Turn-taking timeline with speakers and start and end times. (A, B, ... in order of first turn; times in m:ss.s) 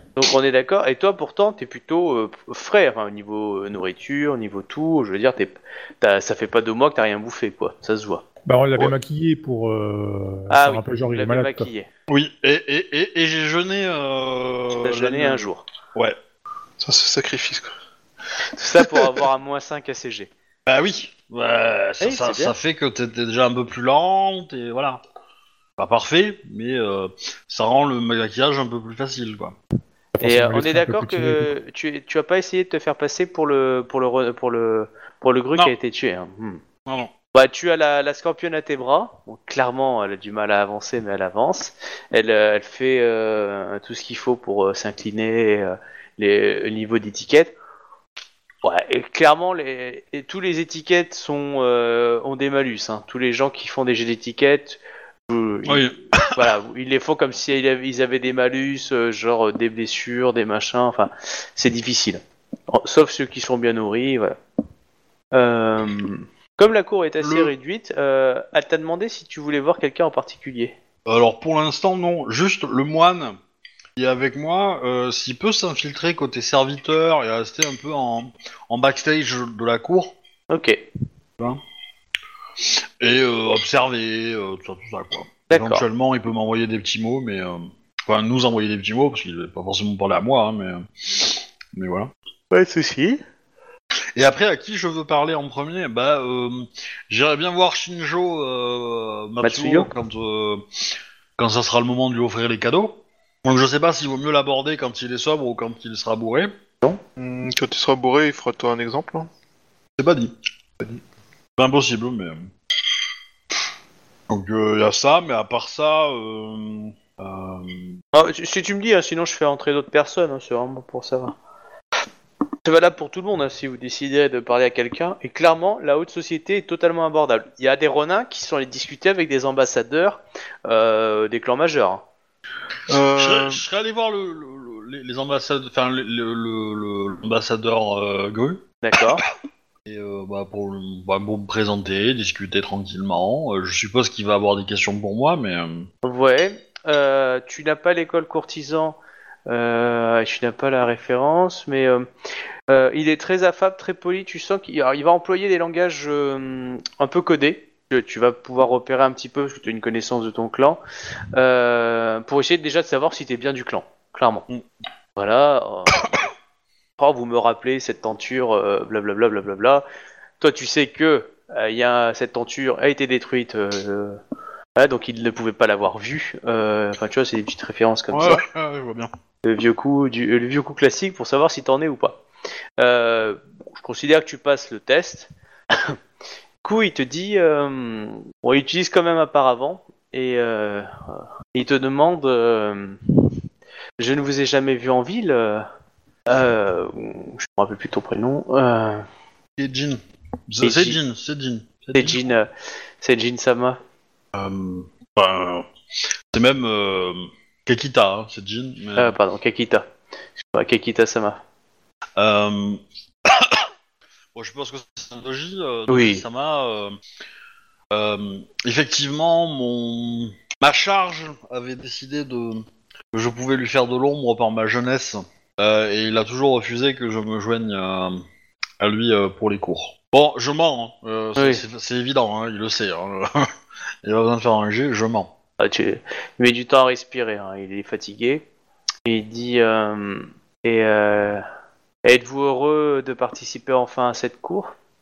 0:00.2-0:08.2 A
0:08.5-0:11.7 B
0:10.5-0:11.9 A
0:12.1-0:16.2 C
0:14.8-0:15.6 A
0:16.8-0:17.8 D
0:18.6-0:20.3 A
0:20.7-0:25.0 C
0:22.0-0:22.5 A
0:25.8-0:29.6 C
0:30.2-0:31.5 B
0:30.2-0:36.6 A
0:36.9-0:37.1 C
0:37.3-0:47.5 A
0:48.6-1:04.4 A
0:55.7-0:56.4 C
1:05.3-1:10.8 A
1:07.2-1:07.5 C
1:11.1-1:13.4 C
1:14.0-1:20.2 C
1:20.5-1:20.9 A
1:23.0-1:32.1 C
1:25.5-1:25.8 A
1:32.5-1:33.2 A
1:34.2-1:40.6 C
1:39.4-1:39.9 A
1:41.4-1:46.5 C
1:47.2-1:49.3 D
1:50.0-1:50.4 C
1:51.6-1:52.5 C
1:54.3-1:58.0 C
1:58.1-2:01.4 A
2:02.6-2:12.0 A
2:12.9-2:13.6 D
2:13.1-2:19.2 C
2:18.8-2:19.2 A
2:19.9-2:25.9 C
2:26.0-2:32.1 A
2:32.7-2:40.8 A
2:41.4-2:44.4 A
2:45.2-2:46.1 A
2:47.0-2:49.8 A
2:50.4-2:54.2 A
2:54.8-2:58.4 A
2:58.1-2:59.1 C
2:59.4-3:02.2 A
3:02.8-3:06.0 A
3:06.6-3:10.9 A
3:11.5-3:13.0 A
3:14.0-3:15.7 A
3:16.3-3:19.0 A
3:19.6-3:22.2 C
3:20.6-3:21.0 A
3:21.9-3:22.5 A
3:23.0-3:23.8 A
3:24.3-3:25.7 C
3:26.3-3:29.1 C
3:29.0-3:29.8 A
3:30.5-3:31.4 A
3:32.2-3:33.7 C
3:34.4-3:37.0 C
3:35.9-3:36.2 A
3:37.9-3:48.2 C
3:48.8-3:53.5 C
3:51.4-3:51.6 A
3:54.0-3:55.3 C
3:55.6-3:58.4 A
3:59.0-4:01.4 A
4:02.0-4:04.7 A